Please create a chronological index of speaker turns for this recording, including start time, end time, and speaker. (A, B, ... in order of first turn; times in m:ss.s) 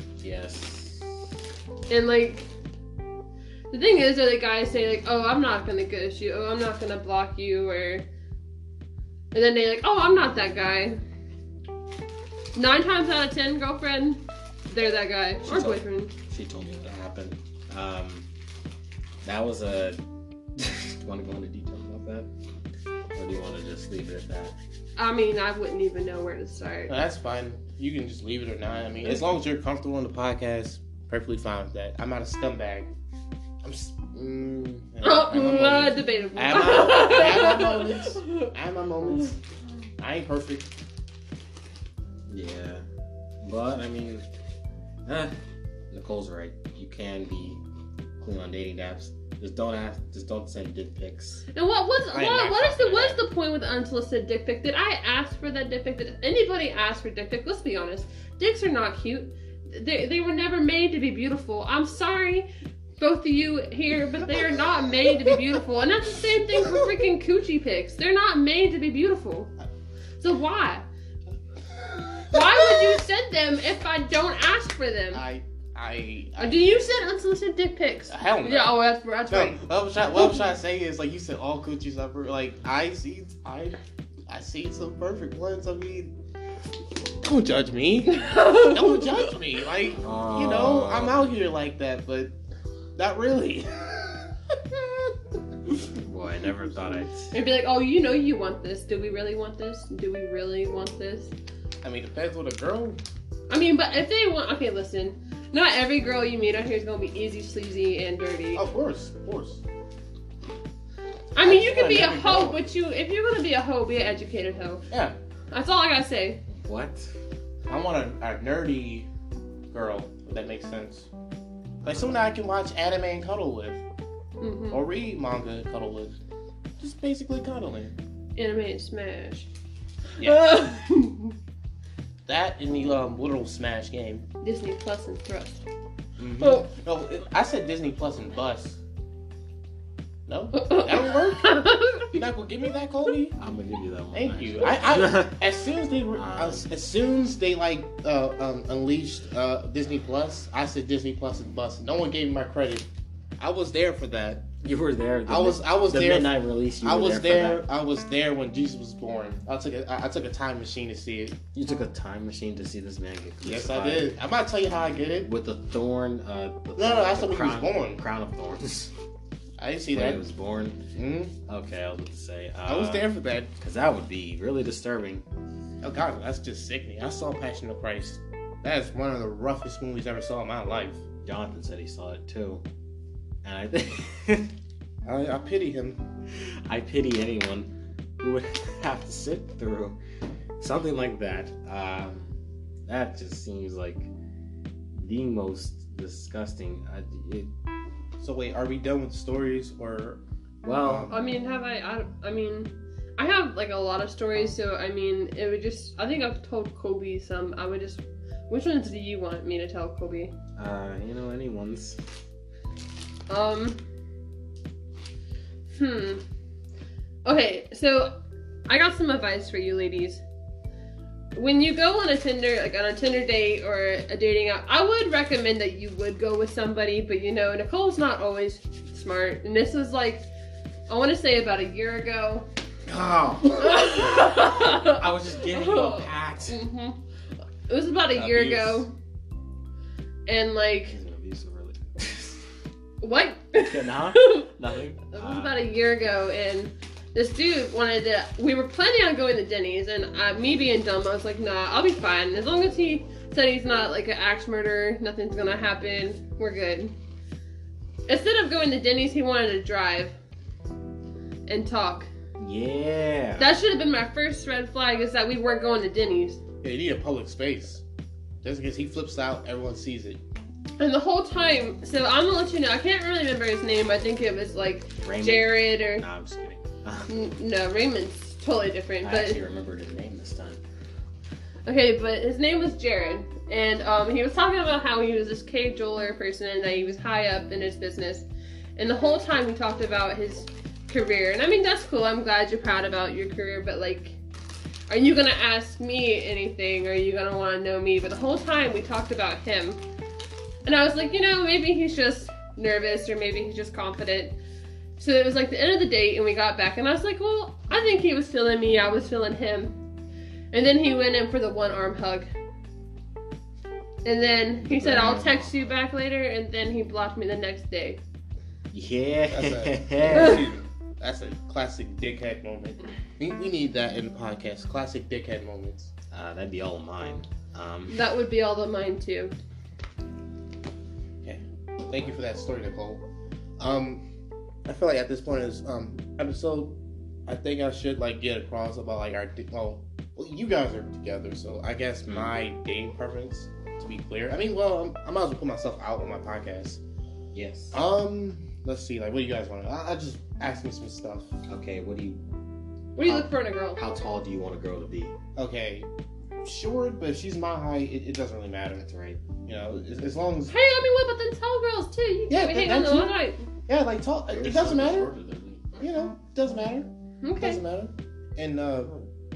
0:00.2-0:01.3 A
0:01.9-0:02.5 B
0:03.7-0:08.1 B
0:09.3-0:11.0 B
0:12.6-0:16.1 B
0:15.5-0:18.3 A
0:19.2-0:20.0 A
0:20.6-0:22.3 A
0:23.2-0:24.6 A
0:25.0-0:26.9 B
0:26.9-0:32.9 C
0:33.6-0:39.4 C
0:35.0-0:38.5 B
0:40.0-0:40.7 C
0:42.3-0:42.8 A
0:43.4-0:44.2 A
0:45.1-0:45.4 A
0:45.9-0:47.6 A
0:48.2-0:51.4 A
0:51.5-1:02.5 B
0:52.1-0:53.2 C
1:03.0-1:09.5 B
1:10.2-1:10.9 B
1:12.2-1:12.6 C
1:12.3-1:15.2 B
1:15.1-1:16.8 C
1:16.4-1:20.4 B
1:18.1-1:18.8 C
1:19.3-1:26.1 C
1:27.2-1:32.3 C
1:28.2-1:28.8 B
1:30.0-1:31.4 A
1:33.0-1:35.1 C
1:36.0-1:37.4 A
1:37.3-1:41.3 B
1:41.8-1:43.0 C
1:43.5-1:48.6 B
1:48.6-1:49.6 C
1:51.4-1:54.8 B
1:51.4-1:52.6 C
1:54.9-1:55.2 C
1:55.5-1:56.4 B
1:56.5-1:57.1 A
1:57.7-1:59.1 C
1:59.7-2:01.1 C
2:01.8-2:03.8 C
2:04.4-2:04.8 B
2:04.7-2:06.2 C
2:06.8-2:07.9 C
2:08.4-2:09.5 B
2:10.2-2:10.5 C
2:10.2-2:11.4 B
2:12.3-2:14.2 C
2:14.4-2:15.6 B
2:16.2-2:18.8 C
2:20.3-2:23.4 C
2:20.6-2:22.1 B
2:23.4-2:25.4 A
2:24.1-2:32.9 C
2:26.1-2:26.7 A
2:33.4-2:34.5 C
2:34.6-2:37.6 A
2:35.3-2:41.4 C
2:41.5-2:44.1 A
2:43.4-2:45.3 C
2:45.2-2:48.9 A
2:46.8-2:48.0 C
2:49.6-2:50.2 C
2:49.9-2:50.9 A
2:50.9-2:51.4 C
2:51.5-2:53.1 A
2:52.7-2:53.5 C
2:53.6-2:55.2 A
2:55.8-3:01.0 C
3:01.2-3:02.6 A
3:03.4-3:04.5 A
3:05.0-3:06.0 C
3:06.4-3:10.0 A
3:10.6-3:14.1 A
3:14.9-3:17.5 A
3:18.2-3:20.2 C
3:20.6-3:21.1 A
3:20.8-3:21.1 C
3:21.1-3:30.3 B
3:30.6-3:32.0 A
3:33.3-3:33.8 B
3:35.7-3:36.2 B
3:37.2-3:38.2 B
3:38.7-3:40.2 B
3:41.4-3:50.2 B
3:50.9-3:52.5 B
3:52.9-3:56.6 A
3:53.6-3:57.0 B
3:57.7-3:58.9 B
3:58.2-3:58.8 C
4:00.3-4:01.0 B
4:00.9-4:02.4 A
4:03.0-4:04.5 B
4:03.6-4:05.6 A
4:05.1-4:16.9 B
4:18.1-4:20.2 B
4:21.5-4:22.1 B
4:22.4-4:23.5 A
4:23.4-4:26.4 B
4:26.6-4:27.8 C
4:28.4-4:30.2 C
4:30.8-4:36.0 B
4:35.0-4:37.3 A
4:37.1-4:39.4 B
4:39.0-4:40.6 A
4:41.7-4:48.3 B
4:48.8-4:54.2 B
4:54.9-4:59.8 B
5:00.6-5:04.4 B
5:05.0-5:09.8 B
5:10.5-5:12.3 B
5:14.0-5:18.0 B
5:14.6-5:15.7 A
5:18.7-5:20.6 A
5:19.3-5:25.9 C
5:20.1-5:20.4 B
5:26.1-5:28.0 A
5:27.9-5:29.4 B
5:31.2-5:33.0 C
5:33.6-5:34.0 C
5:34.7-5:46.8 C
5:42.1-5:42.3 A
5:47.3-5:47.8 A
5:47.7-5:51.3 C
5:51.5-5:52.2 A
5:53.0-5:53.8 B
5:53.0-5:55.2 A
5:55.4-5:55.9 C
5:56.4-5:58.8 C
5:58.8-5:59.2 A
5:59.4-6:00.5 C
6:00.5-6:03.4 B
6:02.3-6:03.1 C
6:03.7-6:05.1 C
6:04.3-6:05.8 A
6:05.8-6:09.0 C
6:07.2-6:07.6 B